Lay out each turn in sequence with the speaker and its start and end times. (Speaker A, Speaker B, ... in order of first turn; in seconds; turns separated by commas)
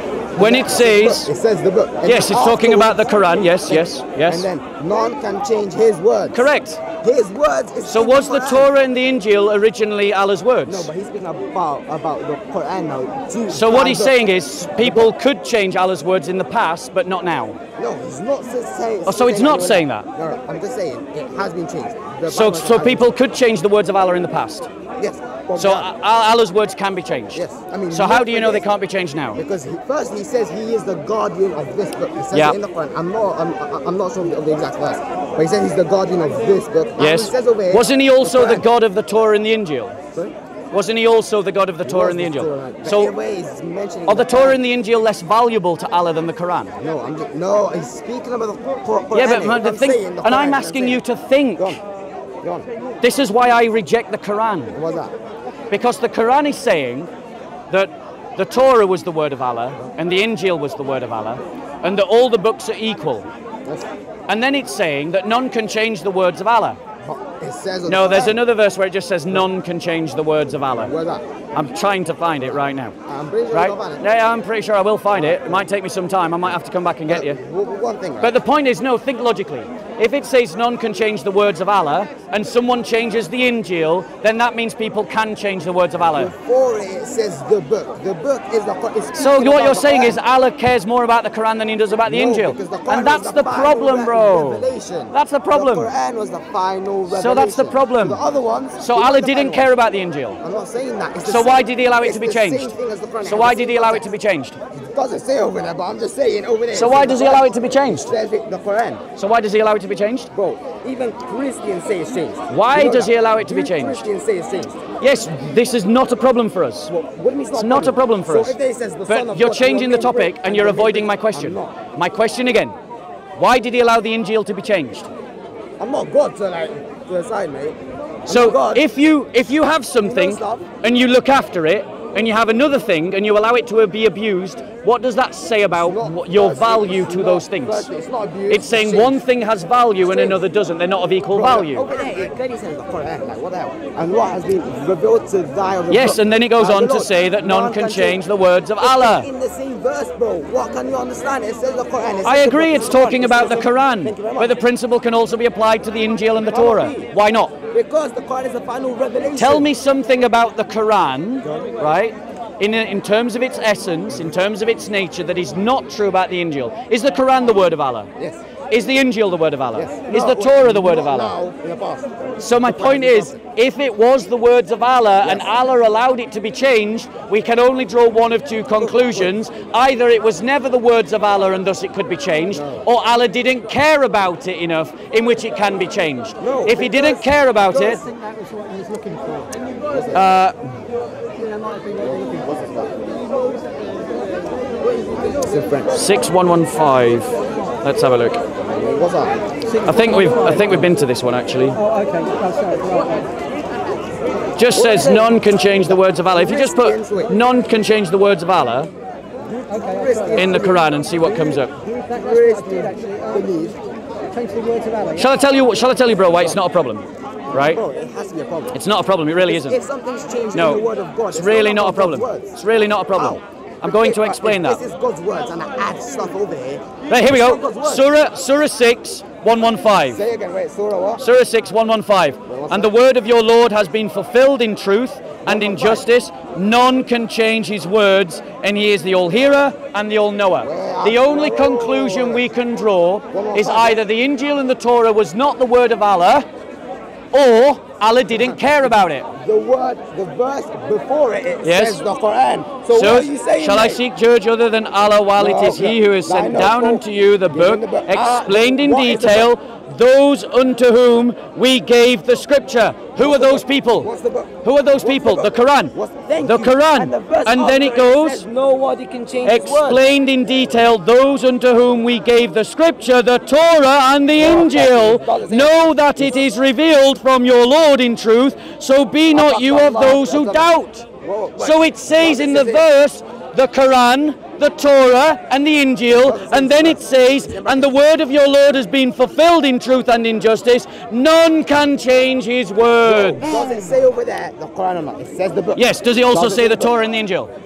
Speaker A: 0.3-3.0, Speaker B: 0.4-1.3, Speaker B: 2.0-4.5, Speaker A: 3.7-8.7, Speaker B: 6.3-6.8, Speaker B: 7.8-10.9, Speaker A: 10.6-15.1, Speaker B: 13.5-17.6, Speaker A: 17.8-23.1, Speaker B: 19.1-20.1, Speaker B: 22.2-24.7, Speaker A: 25.0-25.9, Speaker B: 25.6-29.4, Speaker A: 27.3-28.7, Speaker A: 29.3-38.6, Speaker B: 32.3-32.6, Speaker B: 37.0-40.0, Speaker B: 40.7-43.1, Speaker A: 41.8-44.6, Speaker B: 44.1-46.8, Speaker A: 46.8-51.0, Speaker B: 49.1-51.8, Speaker A: 52.4-52.7, Speaker B: 53.0-54.8, Speaker A: 54.7-55.1, Speaker B: 55.7-57.1, Speaker B: 57.7-63.3, Speaker B: 64.3-66.8, Speaker A: 67.0-68.4, Speaker B: 67.8-70.9, Speaker A: 70.8-71.3, Speaker B: 71.5-72.9, Speaker A: 73.0-74.0, Speaker B: 73.5-77.4, Speaker A: 75.1-75.7, Speaker A: 77.1-78.4, Speaker B: 78.2-86.3, Speaker A: 86.1-90.2, Speaker B: 89.1-95.9, Speaker A: 92.0-99.7, Speaker B: 97.1-98.2, Speaker B: 98.8-100.4, Speaker A: 100.4-104.1, Speaker B: 101.2-104.6, Speaker A: 104.7-109.0, Speaker B: 106.7-108.1, Speaker B: 109.2-110.3, Speaker A: 110.3-114.9, Speaker B: 112.5-114.0, Speaker B: 115.0-116.9, Speaker A: 116.9-121.8, Speaker B: 117.5-118.5, Speaker B: 119.1-122.8, Speaker B: 123.3-125.1, Speaker A: 125.8-128.9, Speaker B: 128.2-137.9, Speaker A: 130.0-130.7, Speaker A: 135.7-139.2, Speaker B: 138.5-141.9, Speaker A: 140.0-140.4, Speaker A: 141.3-148.2, Speaker B: 145.9-149.3, Speaker A: 148.8-154.6, Speaker B: 152.2-157.5, Speaker A: 156.3-159.7, Speaker B: 159.3-168.1, Speaker A: 161.4-161.8, Speaker A: 168.2-168.4, Speaker B: 168.7-171.3, Speaker A: 169.7-173.4, Speaker B: 172.4-188.0, Speaker A: 175.2-175.5, Speaker A: 178.8-179.3, Speaker A: 182.5-182.8, Speaker A: 186.4-188.0, Speaker C: 187.9-189.6, Speaker A: 189.9-190.3, Speaker B: 190.1-190.7, Speaker C: 191.3-192.6, Speaker A: 192.0-192.9, Speaker A: 195.4-196.1, Speaker B: 195.9-198.4, Speaker A: 198.6-199.4, Speaker C: 199.7-200.8, Speaker B: 199.8-201.8, Speaker A: 200.1-200.9, Speaker C: 201.7-203.3, Speaker B: 204.6-208.9, Speaker A: 204.7-207.3, Speaker A: 209.4-213.8, Speaker C: 209.7-210.6, Speaker B: 210.3-211.7, Speaker C: 211.8-213.5, Speaker C: 214.3-215.3, Speaker B: 215.2-217.8, Speaker A: 216.3-216.6, Speaker A: 217.5-218.8, Speaker B: 218.7-219.8, Speaker A: 219.4-222.6, Speaker B: 220.5-224.8, Speaker A: 223.1-228.1, Speaker B: 227.1-230.2, Speaker A: 230.0-231.2, Speaker B: 231.2-246.5, Speaker A: 232.5-232.9, Speaker A: 235.4-236.1, Speaker A: 240.6-242.5, Speaker A: 243.3-244.0, Speaker B: 247.3-249.3, Speaker A: 248.3-248.6, Speaker A: 249.3-254.0, Speaker B: 251.6-252.0, Speaker B: 252.9-264.1, Speaker A: 255.4-259.5, Speaker A: 263.2-270.0, Speaker B: 264.6-268.4, Speaker B: 269.4-281.1, Speaker A: 274.3-276.4, Speaker A: 279.3-280.7, Speaker A: 281.2-282.9, Speaker B: 281.6-293.5, Speaker A: 286.1-287.9, Speaker A: 293.0-297.0, Speaker B: 295.8-297.5